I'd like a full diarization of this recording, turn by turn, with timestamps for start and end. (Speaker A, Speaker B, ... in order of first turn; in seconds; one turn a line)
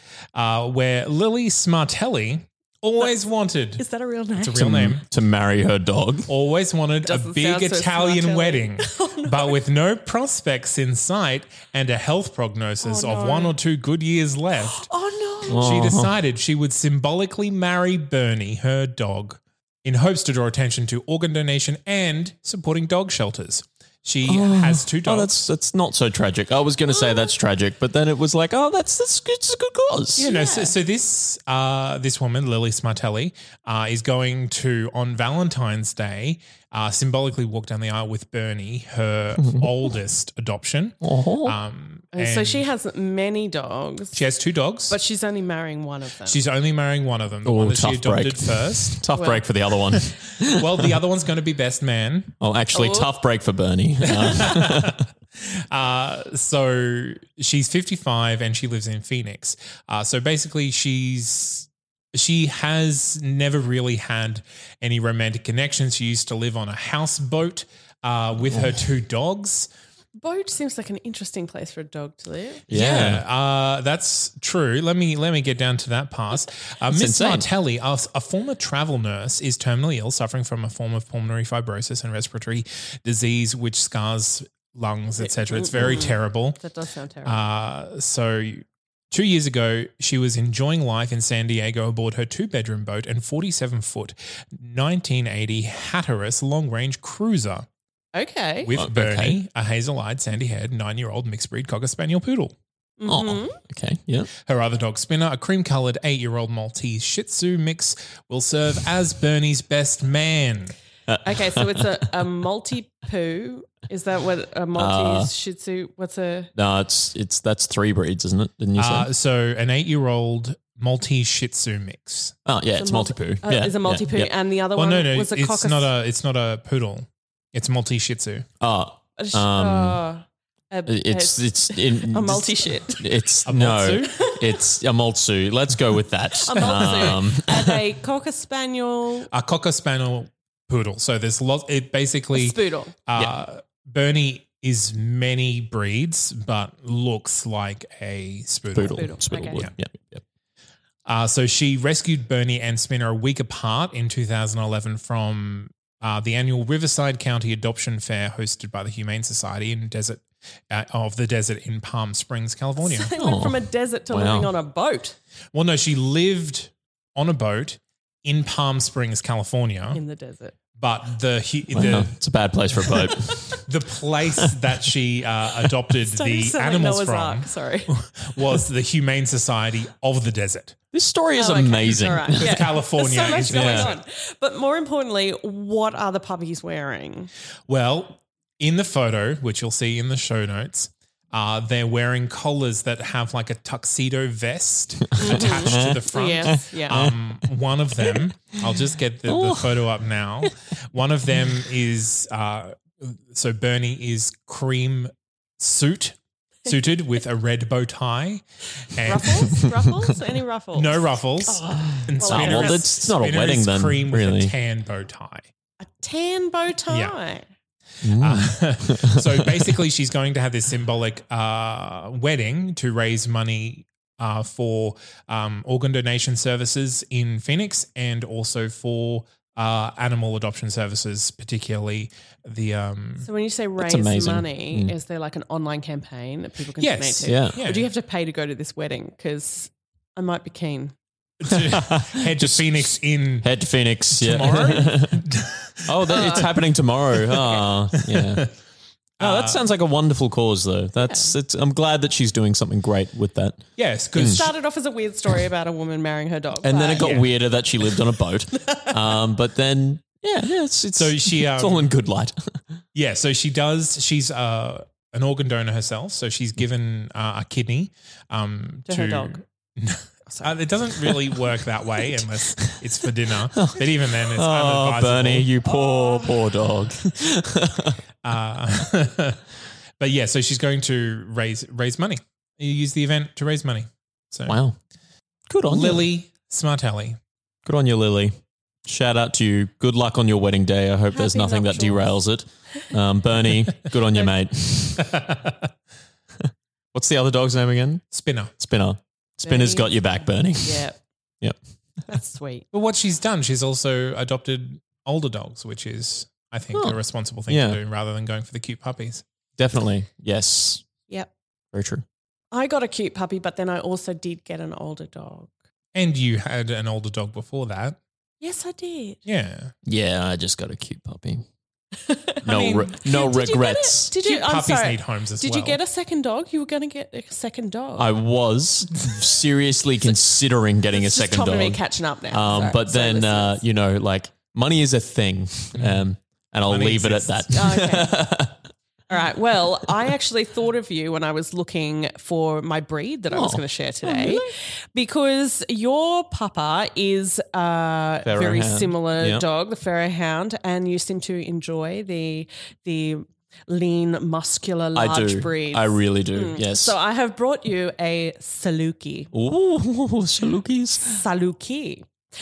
Speaker A: 0.3-3.8
Speaker B: 3.8-4.7
Speaker A: 4.4-5.0
Speaker C: 4.6-6.3
Speaker A: 6.3-14.9
Speaker B: 7.0-9.6
Speaker B: 12.8-13.6
Speaker B: 14.6-15.9
Speaker C: 15.5-16.1
Speaker A: 15.6-25.4
Speaker C: 24.3-30.3
Speaker B: 30.2-30.8
Speaker A: 30.2-42.6
Speaker C: 41.0-41.6
Speaker B: 42.1-44.2
Speaker A: 44.1-45.0
Speaker B: 44.9-46.4
Speaker A: 46.3-49.0
Speaker C: 47.5-50.9
Speaker B: 49.1-49.4
Speaker A: 49.9-52.4
Speaker C: 52.4-55.0
Speaker B: 52.7-53.1
Speaker A: 54.4-69.7
Speaker B: 70.2-72.6
Speaker C: 72.7-73.2
Speaker A: 72.7-86.6
Speaker C: 76.9-77.5
Speaker B: 85.2-87.4
Speaker A: 87.2-97.7
Speaker B: 98.2-98.7
Speaker A: 98.6-102.5
Speaker C: 98.8-99.4
Speaker B: 103.0-103.6
Speaker C: 103.1-104.3
Speaker A: 104.5-110.8
Speaker C: 111.1-112.0
Speaker B: 111.2-116.5
Speaker C: 114.8-115.3
Speaker C: 116.5-119.1
Speaker A: 118.8-122.3
Speaker C: 122.5-124.3
Speaker B: 122.8-125.9
Speaker A: 124.8-128.5
Speaker C: 128.6-130.0
Speaker B: 129.2-133.2
Speaker C: 130.9-137.8
Speaker A: 133.4-134.2
Speaker B: 134.2-134.4
Speaker B: 136.4-139.3
Speaker A: 136.6-137.2
Speaker A: 139.3-149.7
Speaker B: 142.3-142.9
Speaker C: 148.7-150.2
Speaker B: 148.9-149.7
Speaker A: 151.1-163.1
Speaker B: 162.8-165.2
Speaker C: 163.2-163.6
Speaker C: 164.1-164.5
Speaker A: 165.5-170.0
Speaker B: 169.9-170.5
Speaker A: 170.8-172.2
Speaker C: 171.7-173.6
Speaker B: 173.1-173.6
Speaker A: 173.7-180.8
Speaker B: 176.0-177.9
Speaker C: 180.9-182.7
Speaker B: 181.4-187.3
Speaker A: 182.4-184.0
Speaker C: 183.4-183.9
Speaker A: 187.7-209.7
Speaker B: 195.2-197.0
Speaker C: 195.2-197.2
Speaker C: 197.9-198.3
Speaker C: 199.3-199.9
Speaker B: 209.0-212.8
Speaker A: 210.7-215.5
Speaker C: 212.3-214.5
Speaker B: 215.8-217.4
Speaker A: 216.9-217.2
Speaker C: 218.0-219.6
Speaker A: 218.2-233.3
Speaker B: 233.2-241.0
Speaker C: 233.8-234.9
Speaker A: 236.8-237.9
Speaker C: 237.3-237.6
Speaker A: 241.4-243.5
Speaker C: 241.5-242.7
Speaker C: 243.4-245.2
Speaker A: 244.1-246.3
Speaker C: 245.8-248.5
Speaker B: 246.1-246.5
Speaker B: 247.3-247.6
Speaker A: 248.0-248.5
Speaker C: 249.2-254.4
Speaker A: 249.2-249.7
Speaker B: 251.0-251.3
Speaker A: 253.8-254.5
Speaker B: 254.2-257.2
Speaker C: 256.6-262.6
Speaker A: 257.0-257.3
Speaker A: 261.0-261.9
Speaker A: 262.9-275.5
Speaker B: 268.9-269.4
Speaker C: 273.5-273.8
Speaker C: 274.3-278.0
Speaker B: 275.8-276.4
Speaker A: 278.2-279.4
Speaker A: 280.0-284.6
Speaker C: 284.5-284.8
Speaker C: 285.5-286.1
Speaker A: 285.7-287.2
Speaker C: 287.6-295.1
Speaker B: 291.1-292.2
Speaker A: 295.1-295.5
Speaker C: 296.4-298.0
Speaker A: 298.1-298.5
Speaker C: 298.6-300.9
Speaker B: 299.4-301.0
Speaker B: 302.1-302.7
Speaker A: 302.7-309.2
Speaker C: 306.7-307.8
Speaker C: 309.6-310.9
Speaker C: 311.7-312.1
Speaker B: 312.5-315.5
Speaker A: 315.9-318.0
Speaker B: 318.4-319.2
Speaker A: 319.3-319.7
Speaker C: 319.9-321.4
Speaker B: 322.1-328.1
Speaker C: 322.4-324.1
Speaker A: 322.4-322.9
Speaker A: 324.2-325.8
Speaker C: 328.0-338.6
Speaker B: 330.9-333.6
Speaker A: 335.8-336.0
Speaker A: 336.7-337.6
Speaker B: 337.5-338.2
Speaker B: 339.1-359.3
Speaker C: 343.3-344.5
Speaker C: 348.2-349.4
Speaker C: 354.9-356.9
Speaker C: 359.3-361.2
Speaker B: 361.0-362.1